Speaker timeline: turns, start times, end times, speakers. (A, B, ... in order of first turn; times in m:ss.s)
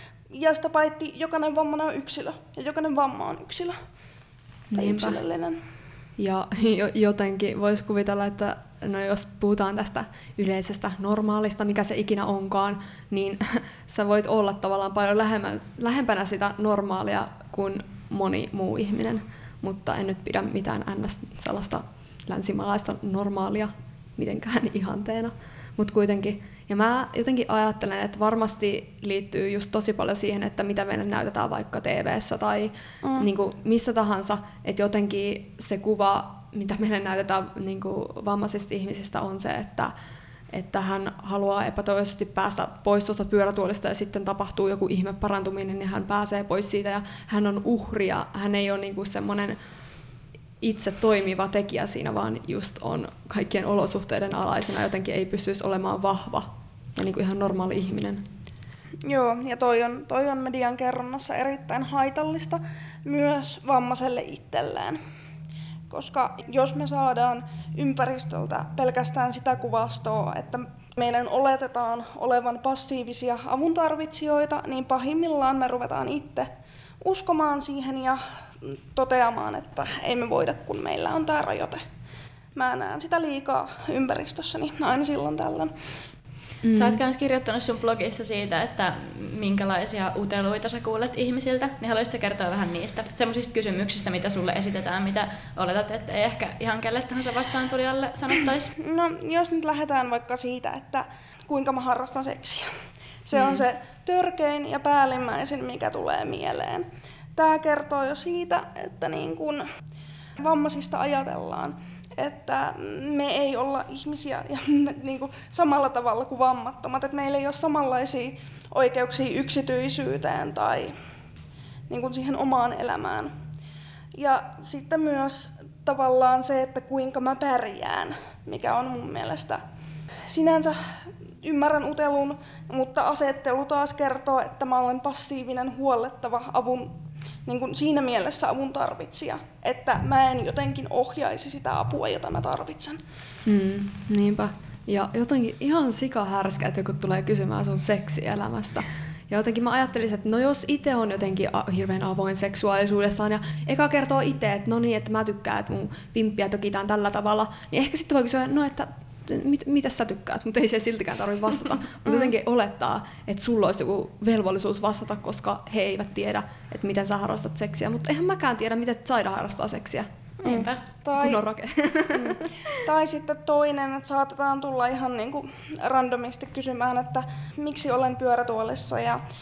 0:00.3-0:03.8 A
0:04.7-0:05.2 B
0:04.7-0:05.6 A
0:06.2-0:39.9 B
0:33.0-0:33.3 A
0:40.5-0:49.6 B
0:50.6-0:58.2 B
0:59.0-1:05.0 A
1:05.9-1:16.5 A
1:17.0-1:21.8 A
1:22.6-1:25.7 A
1:26.6-1:27.0 B
1:26.7-1:38.7 C
1:38.8-1:42.7 A
1:43.3-1:49.6 A
1:43.4-1:43.6 B
1:50.4-2:00.9 A
2:01.9-2:03.3 A
2:04.2-2:09.6 A
2:10.3-2:10.8 A
2:11.4-2:16.9 A
2:17.4-2:23.0 A
2:23.4-2:50.1 B
2:42.0-2:42.3 A
2:50.4-2:51.4 A
2:50.4-2:50.8 C
2:51.2-2:52.5 B
2:52.1-2:59.2 A